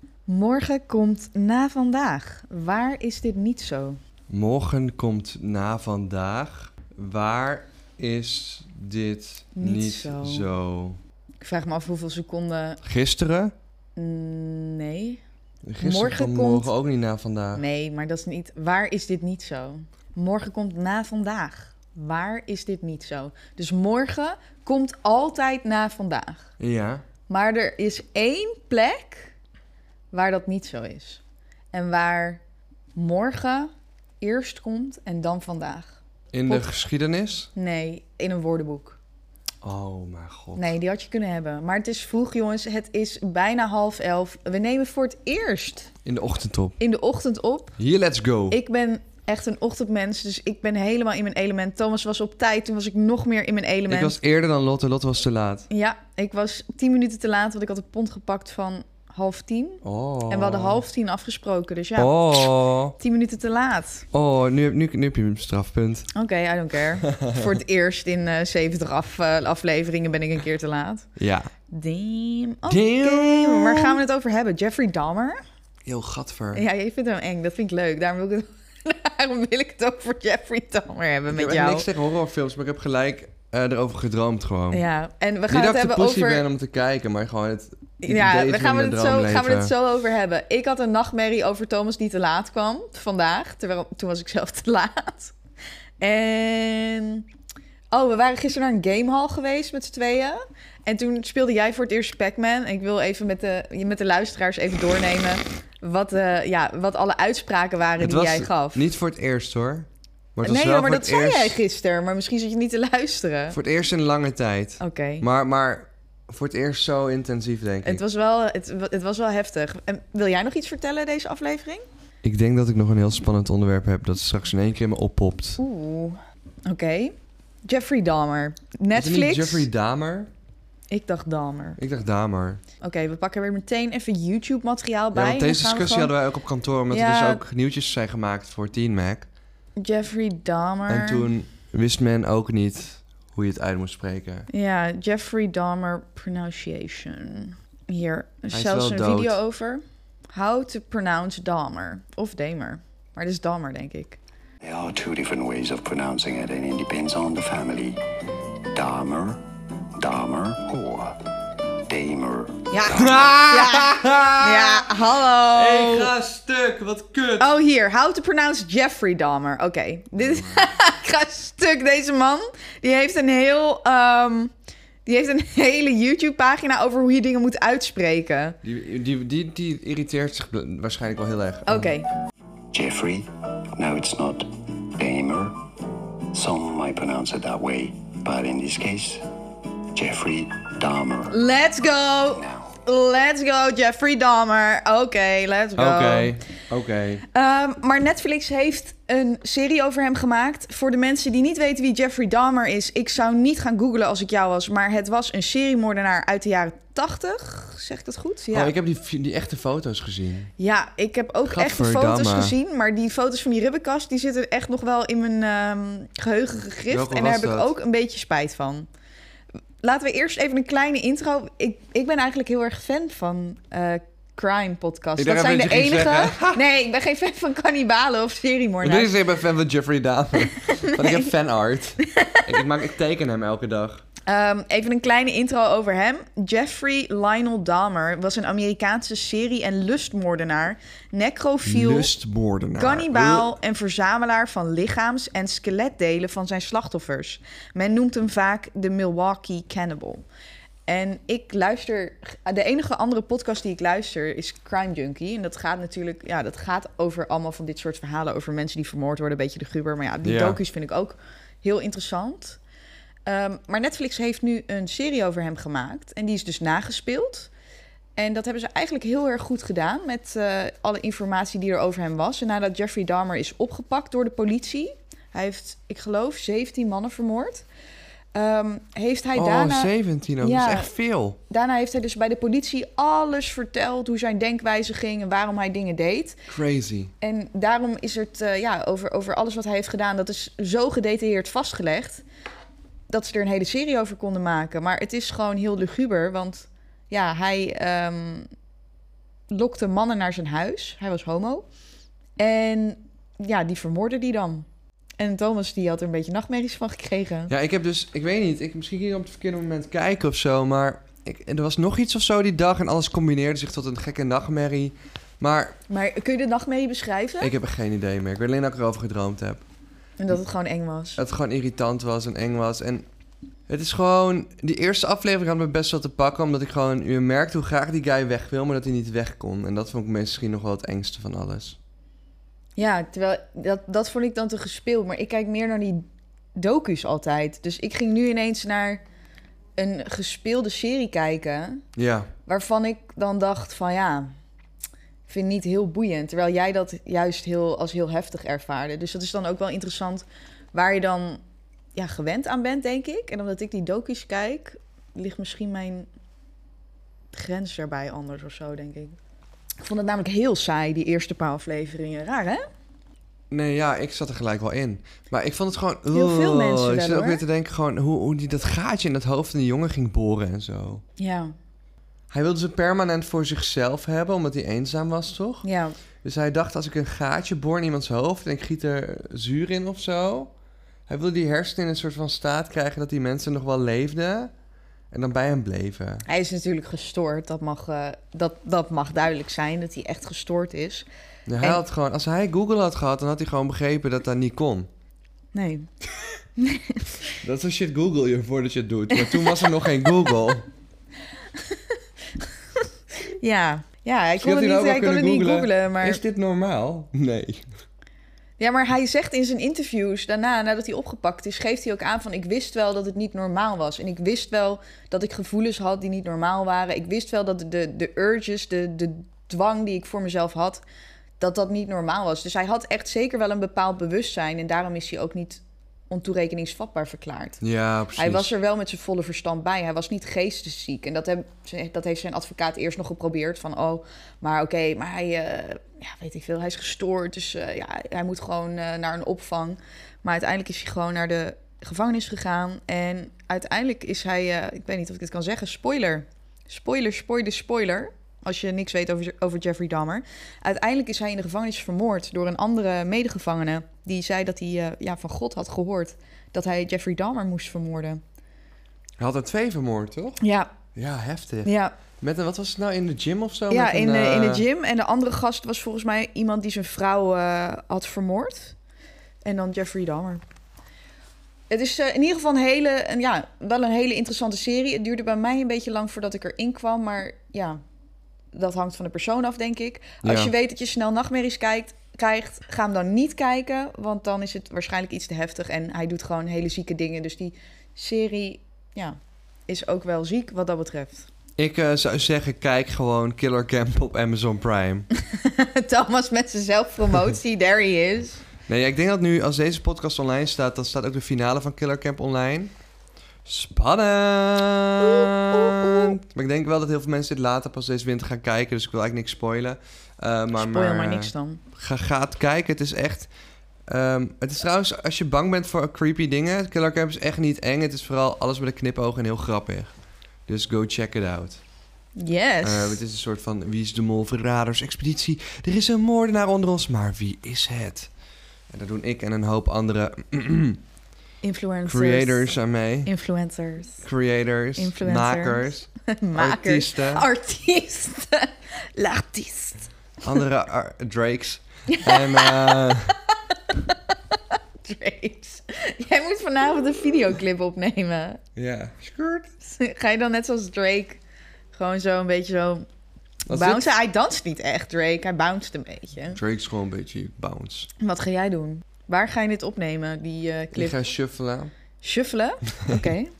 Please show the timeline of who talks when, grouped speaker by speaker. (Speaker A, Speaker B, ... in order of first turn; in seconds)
Speaker A: 0.3-4.0, 9.6-10.5, 11.4-12.8, 13.9-15.2, 15.8-16.7, 17.6-26.5, 27.3-29.3, 30.1-31.2, 31.7-32.4, 32.9-36.0, 36.5-36.7, 37.5-39.0, 40.5-45.9, 46.8-47.8, 48.5-54.2, 55.7-64.0, 66.1-71.1, 71.7-75.4, 76.5-81.9, 84.7-86.4, 88.0-95.3, 96.0-97.2, 97.9-108.9, 110.4-113.6, 114.8-115.2, 117.8-121.8, 125.6-127.1, 127.7-129.7, 130.9-131.8, 132.8-136.1, 136.9-137.4, 139.8-141.3, 144.5-154.2, 162.7-166.1, 167.4-174.5, 175.1-178.6, 181.7-182.1, 191.3-196.4, 197.3-208.7, 210.6-218.9, 219.8-229.1, 230.6-231.3, 232.0-232.6, 234.3-242.1, 242.8-250.2, 250.9-262.6, 263.2-267.5, 268.1-277.6, 278.3-280.9, 281.5-286.4, 287.2-292.2, 293.1-298.5, 299.5-301.6, 302.4-304.7, 305.2-307.5, 315.9-317.5, 320.2-321.2, 332.8-336.0, 336.6-339.0, 339.8-341.8, 342.4-344.3, 345.3-351.4, 351.9-356.1, 357.3-359.2, 359.8-362.6, 366.1-367.4, 371.2-371.5, 375.6-375.9, 386.2-391.1, 395.5-395.9, 396.6-397.2, 399.1-399.7, 403.2-406.2, 408.6-420.8, 421.4-427.6, 428.1-458.2, 460.4-460.7, 461.6-461.9, 463.7-468.8, 469.4-470.4, 471.7-477.8, 478.5-491.3, 495.1-498.4, 505.0-506.1, 510.5-511.6, 522.2-523.0, 531.4-532.5, 533.0-534.0, 534.8-539.9, 541.9-548.4, 549.6-551.2, 551.7-552.9, 553.5-556.4, 558.0-561.0, 562.0-563.3
Speaker B: 4.3-11.0, 12.8-13.5, 15.7-17.6, 26.6-27.0, 36.3-37.5, 39.6-40.8, 46.0-46.8, 47.8-48.6, 53.9-55.7, 59.8-60.8, 62.0-63.0, 64.1-66.1, 67.1-67.5, 71.2-71.5, 72.7-74.0, 75.8-76.6, 81.3-84.8, 85.5-89.7, 108.0-111.6, 113.5-118.0, 122.2-125.6, 128.9-130.3, 131.8-132.6, 135.1-139.3, 140.9-144.5, 148.5-149.4, 162.9-167.5, 170.2-170.7, 178.6-181.9, 195.8-197.2, 208.5-210.5, 211.4-212.6, 216.9-217.7, 225.2-226.6, 228.8-234.0, 241.6-243.6, 260.2-260.6, 279.3-281.4, 286.5-287.1, 307.5-315.8, 317.4-319.6, 321.2-323.1, 323.7-331.8, 341.9-342.3, 363.5-371.0, 372.3-375.6, 376.2-380.5, 381.1-384.5, 385.1-386.2, 391.5-394.9, 397.4-400.7, 404.4-407.6, 427.6-428.5, 459.2-460.4, 460.9-464.6, 480.2-480.5, 491.6-495.1, 498.7-502.7, 503.4-513.3, 513.9-519.9, 520.5-521.6, 522.6-528.1, 528.7-530.8, 531.8-533.1, 534.0-537.3, 540.2-543.1, 548.5-549.5, 553.5-553.9, 556.3-557.9, 560.7-561.7
Speaker C: 154.6-158.0, 158.7-159.4, 160.0-161.3, 161.9-163.4, 182.7-185.6, 186.3-189.2, 189.9-191.4, 192.3-192.7